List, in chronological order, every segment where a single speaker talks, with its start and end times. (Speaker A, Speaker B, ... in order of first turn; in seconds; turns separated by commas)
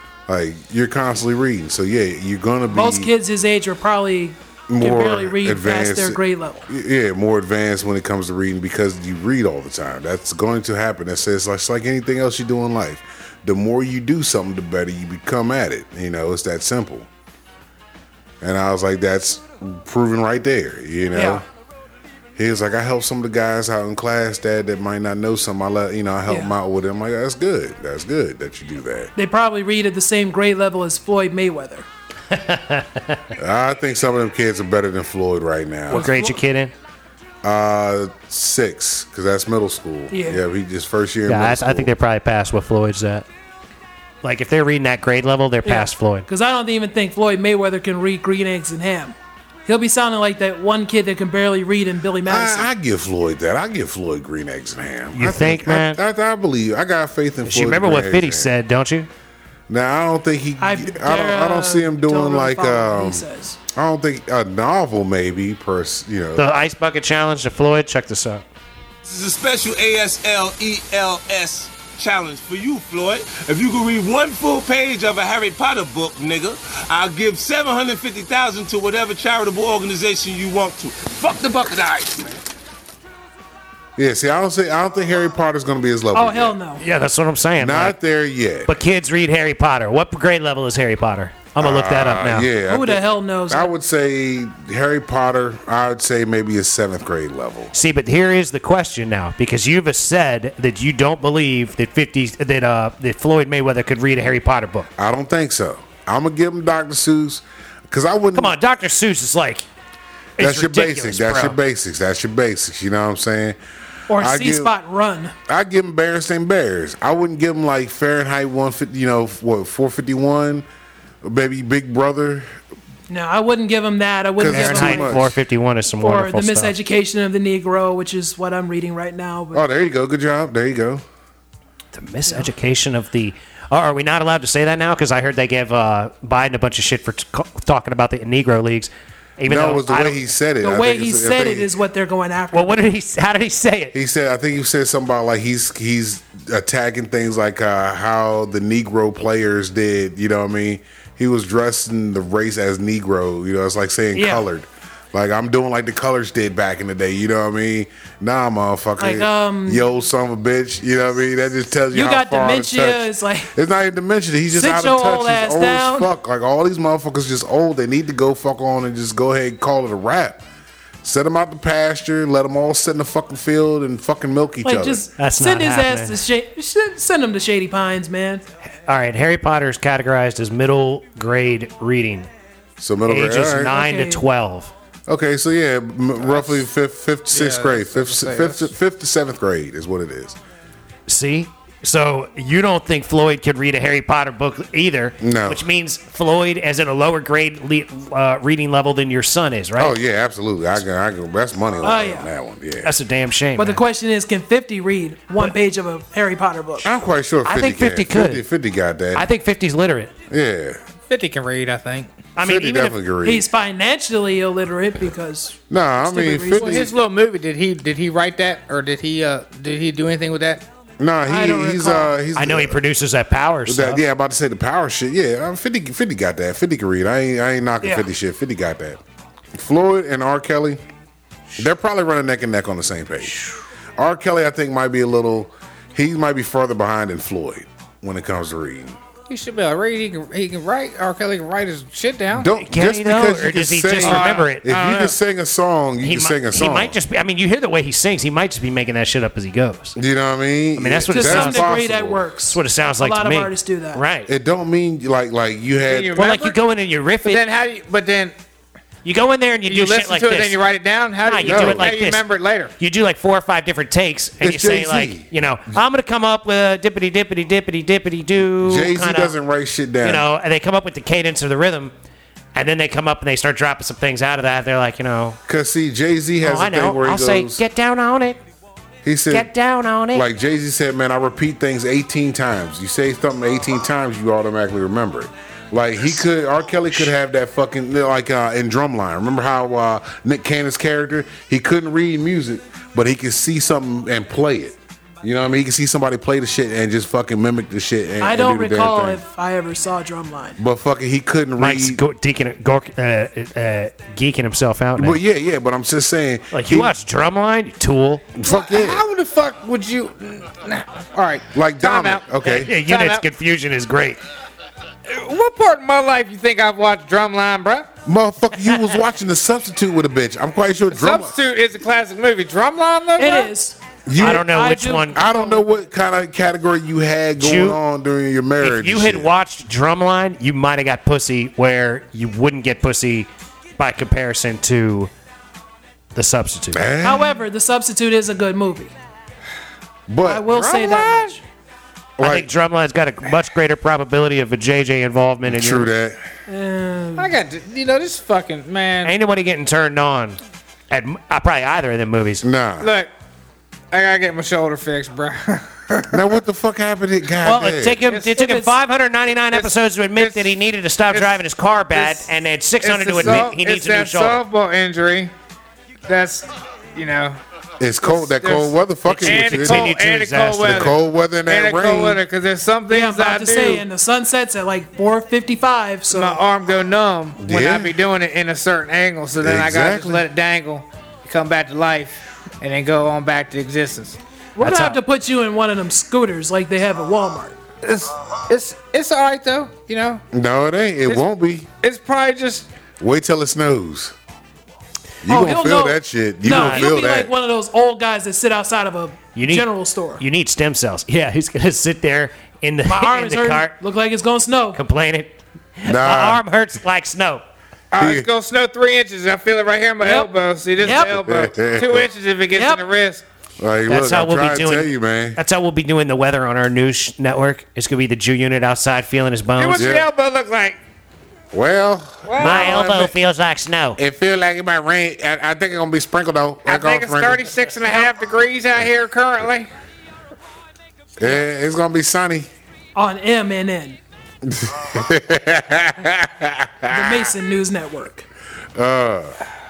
Speaker A: 0.3-3.1, Speaker B: 2.7-6.7, Speaker A: 4.7-17.1, Speaker A: 18.4-21.4, Speaker B: 21.1-21.4, Speaker A: 22.4-29.1, Speaker B: 26.3-26.5, Speaker B: 29.1-31.9, Speaker C: 32.3-33.3, Speaker A: 33.4-36.1, Speaker C: 35.9-36.7, Speaker B: 35.9-36.4, Speaker A: 37.4-41.9, Speaker B: 40.1-40.4, Speaker C: 41.3-43.3, Speaker C: 44.2-46.3, Speaker B: 45.6-49.1, Speaker B: 49.6-52.7, Speaker A: 52.2-58.5, Speaker C: 55.1-56.0, Speaker C: 57.4-59.1, Speaker A: 59.7-66.5, Speaker B: 60.6-63.6, Speaker C: 66.3-68.4, Speaker D: 69.0-82.3, Speaker A: 84.0-86.5, Speaker B: 86.1-86.8, Speaker C: 86.8-87.9, Speaker A: 87.6-88.7, Speaker C: 88.7-92.5, Speaker A: 91.6-97.7, Speaker B: 92.6-93.7, Speaker C: 97.7-104.9, Speaker A: 105.0-108.5, Speaker C: 108.3-109.7, Speaker C: 110.4-111.6, Speaker A: 110.4-113.6, Speaker B: 114.1-115.3, Speaker A: 114.1-114.7, Speaker A: 115.5-120.7, Speaker A: 121.2-122.5, Speaker B: 123.1-125.2, Speaker A: 124.3-125.3, Speaker C: 124.5-126.7, Speaker B: 126.0-129.6, Speaker A: 129.5-131.0, Speaker C: 131.9-140.2, Speaker A: 139.5-141.7, Speaker B: 140.6-142.8, Speaker C: 142.5-143.9, Speaker A: 143.9-170.4, Speaker B: 154.1-154.4, Speaker B: 159.0-159.8, Speaker B: 161.9-163.5, Speaker B: 164.5-166.1, Speaker A: 171.0-175.0, Speaker B: 174.6-178.4, Speaker C: 175.2-176.2, Speaker C: 178.8-182.3, Speaker A: 182.8-183.8, Speaker C: 183.1-184.7, Speaker B: 183.7-184.2, Speaker A: 185.1-190.4, Speaker E: 187.3-188.7, Speaker C: 191.1-199.9, Speaker A: 195.2-195.6, Speaker A: 199.8-202.9, Speaker B: 201.8-202.3, Speaker C: 202.8-203.8, Speaker B: 203.6-206.9, Speaker A: 206.8-209.3, Speaker C: 207.4-208.4, Speaker C: 209.1-210.1, Speaker A: 210.3-210.8, Speaker E: 211.1-212.1, Speaker C: 212.3-212.9, Speaker A: 212.4-213.5, Speaker B: 213.2-216.9, Speaker A: 215.7-216.9, Speaker E: 216.6-220.6, Speaker A: 221.0-222.8, Speaker B: 221.2-222.1, Speaker C: 222.3-224.0, Speaker A: 223.7-229.0, Speaker A: 229.5-230.8, Speaker A: 231.6-233.4, Speaker A: 234.0-239.0, Speaker E: 239.3-242.5, Speaker A: 242.3-246.9, Speaker C: 242.6-245.1, Speaker E: 244.0-244.5, Speaker C: 246.0-249.9, Speaker A: 249.9-252.2, Speaker C: 250.8-251.8, Speaker B: 251.1-254.0, Speaker C: 252.5-254.3, Speaker A: 254.3-256.2, Speaker E: 255.8-256.6, Speaker C: 256.1-257.4, Speaker E: 257.2-258.3, Speaker C: 259.0-260.6, Speaker E: 259.7-262.7, Speaker C: 261.2-262.2, Speaker A: 261.4-261.9, Speaker C: 262.8-269.3, Speaker A: 264.4-265.3, Speaker A: 268.6-270.2, Speaker C: 270.0-271.9, Speaker C: 272.5-275.4, Speaker A: 275.5-277.6, Speaker C: 276.4-278.4, Speaker A: 279.0-279.5, Speaker C: 279.3-280.2, Speaker A: 280.1-299.2, Speaker B: 298.2-300.6, Speaker A: 300.6-302.0, Speaker C: 301.6-305.2, Speaker A: 305.0-306.9, Speaker C: 306.5-308.3, Speaker A: 308.3-309.0, Speaker E: 308.4-313.2, Speaker A: 311.5-312.7, Speaker C: 312.5-314.2, Speaker E: 315.1-317.9, Speaker A: 318.0-321.3, Speaker E: 320.9-323.5, Speaker B: 323.2-325.6, Speaker A: 324.1-324.5, Speaker C: 324.2-325.2, Speaker A: 325.1-329.3, Speaker C: 327.4-327.8, Speaker C: 328.6-335.1, Speaker C: 336.1-336.9, Speaker A: 336.7-337.4, Speaker B: 337.0-338.9, Speaker A: 340.1-341.3, Speaker B: 340.2-341.4, Speaker A: 342.2-342.5, Speaker C: 342.2-345.9, Speaker A: 345.4-346.2, Speaker B: 346.5-347.3, Speaker E: 347.1-349.1, Speaker C: 349.0-352.4, Speaker A: 352.4-352.9, Speaker E: 352.8-353.1, Speaker E: 353.9-356.2, Speaker A: 356.1-358.0, Speaker C: 357.4-364.4, Speaker E: 358.1-358.3, Speaker B: 358.3-358.8, Speaker E: 359.5-360.6, Speaker E: 361.1-361.4, Speaker E: 361.9-362.3, Speaker E: 362.8-365.3, Speaker A: 363.2-363.5, Speaker E: 366.1-367.4, Speaker A: 367.8-369.9, Speaker E: 368.0-373.9, Speaker C: 369.1-370.9, Speaker A: 370.6-372.2, Speaker B: 372.9-376.4, Speaker E: 376.1-384.2, Speaker A: 377.4-377.9, Speaker A: 379.4-380.2, Speaker B: 384.6-387.6, Speaker C: 384.6-385.0, Speaker E: 387.8-390.2, Speaker A: 390.3-391.7, Speaker E: 391.8-392.7, Speaker A: 393.0-394.1, Speaker A: 395.2-397.3, Speaker B: 395.2-400.2, Speaker C: 396.4-396.9, Speaker C: 399.3-403.7, Speaker B: 402.9-404.8, Speaker C: 404.7-407.4, Speaker A: 405.9-406.4, Speaker E: 407.9-413.2, Speaker A: 407.9-408.3, Speaker B: 410.0-410.3, Speaker B: 410.8-411.1, Speaker A: 410.9-412.1, Speaker B: 412.5-412.8, Speaker A: 413.6-415.4, Speaker C: 413.9-419.9, Speaker E: 419.6-420.8, Speaker A: 419.8-420.1, Speaker A: 421.5-423.1, Speaker E: 422.2-423.1, Speaker C: 422.4-424.0, Speaker A: 424.0-427.5, Speaker E: 426.6-429.7, Speaker A: 431.2-432.5, Speaker B: 432.9-434.0, Speaker A: 434.4-437.3, Speaker B: 436.9-438.3, Speaker A: 438.7-439.4